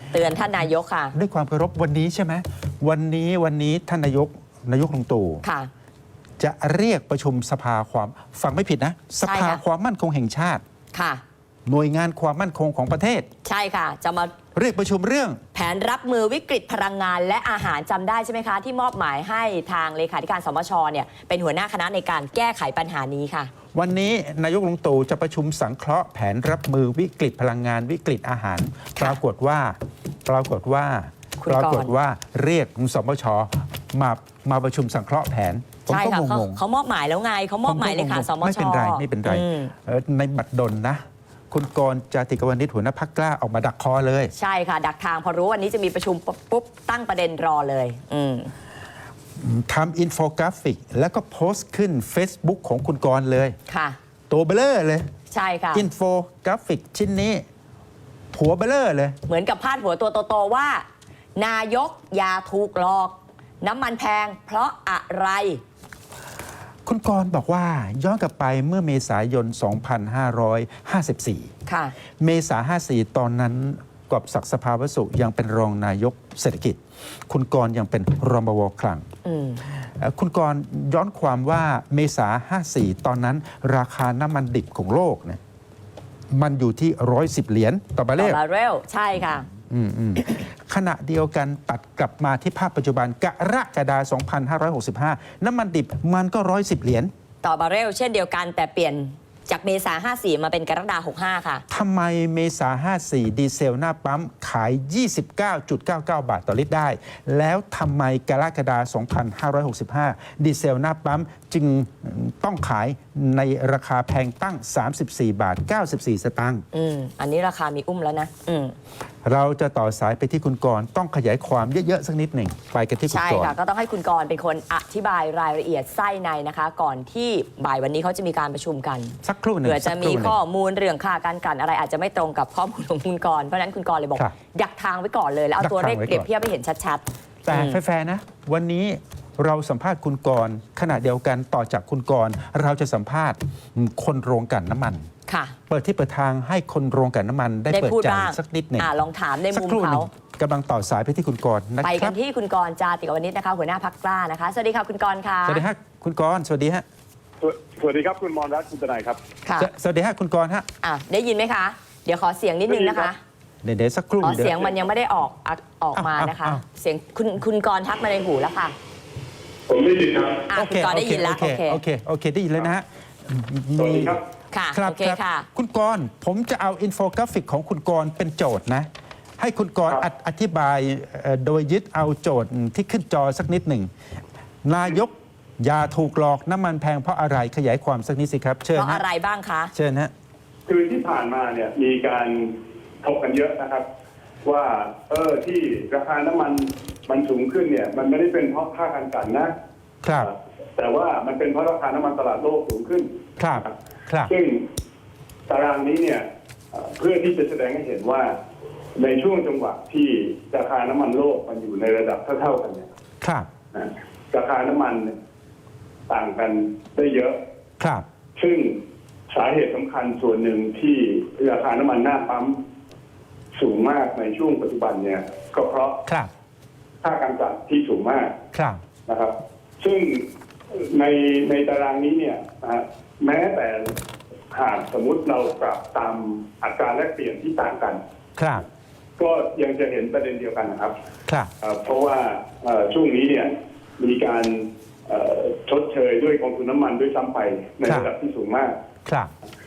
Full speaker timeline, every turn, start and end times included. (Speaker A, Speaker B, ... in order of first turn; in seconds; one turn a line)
Speaker A: 0.1-1.1
Speaker B: 1.1-5.4
Speaker A: 5.4-5.7
Speaker B: 6.4-10.6
Speaker A: 9.2-9.6
Speaker A: 10.9-11.2
Speaker B: 11.7-13.3
Speaker A: 13.4-14.3
Speaker B: 14.5-15.4
Speaker A: 15.5-23.5
Speaker B: 23.7-36.6
Speaker A: 31.4-31.9
Speaker A: 35.9-39.7
Speaker B: 37.6-44.3
Speaker A: 44.3-48.5
Speaker B: 49.4-53.5
Speaker A: 53.7-54.0
Speaker B: 54.3-55.1
Speaker A: 55.3-55.9
Speaker B: 55.7-57.4
Speaker B: 58.3-59.2
Speaker A: 59.2-60.8
Speaker A: 61.4-65.6
Speaker B: 66.8-71.5
Speaker A: 71.7-71.9
Speaker B: 72.2-79.0
Speaker A: 79.2-79.6
Speaker B: 79.8-85.4
Speaker B: 86.3-88.4
Speaker A: 88.2-89.5
Speaker B: 89.7-97.1
Speaker A: 97.4-101.6
Speaker B: 101.7-116.6
Speaker A: 116.7-118.8
Speaker B: 119.2-123.5
Speaker A: 123.1-137.8
Speaker B: 129.2-130.4
Speaker B: 135.6-136.2
Speaker B: 137.4-145.1
Speaker A: 145.3-145.6
Speaker B: 145.7-148.9
Speaker A: 147.7-150.1
Speaker B: 149.5-152.2
Speaker A: 151.8-155.6
Speaker B: 155.4-156.8
Speaker C: 157.4-159.2
Speaker A: 159.4-159.7
Speaker B: 159.6-160.7
Speaker A: 160.8-163.2
Speaker C: 162.7-163.1
Speaker B: 163.6-164.7
Speaker A: 164.2-168.7
Speaker B: 165.9-166.6
Speaker C: 169.7-170.5
Speaker A: 170.5-171.8
Speaker B: 170.5-174.2
Speaker C: 173.8-174.2
Speaker A: 174.5-175.5
Speaker B: 174.7-178.9
Speaker B: 179.4-183.9
Speaker B: 184.6-189.0
Speaker A: 188.7-189.7
Speaker B: 189.7-190.1
Speaker C: 190.7-193.8
Speaker C: 194.4-199.5
Speaker B: 200.0-200.3
Speaker C: 200.2-203.1
Speaker B: 203.4-204.3
Speaker C: 204.2-204.6
Speaker C: 205.5-208.3
Speaker C: 208.9-212.9
Speaker B: 213.2-213.5
Speaker C: 213.7-215.1
Speaker C: 216.1-217.3
Speaker B: 217.8-218.1
Speaker C: 218.3-218.7
Speaker C: 219.3-222.6
Speaker C: 223.5-226.0
Speaker C: 227.0-228.3
Speaker B: 228.5-228.8
Speaker C: 229.1-234.0
Speaker C: 234.5-238.0
Speaker B: 238.4-238.6
Speaker C: 239.2-240.9
Speaker C: 241.6-248.7
Speaker B: 249.1-249.3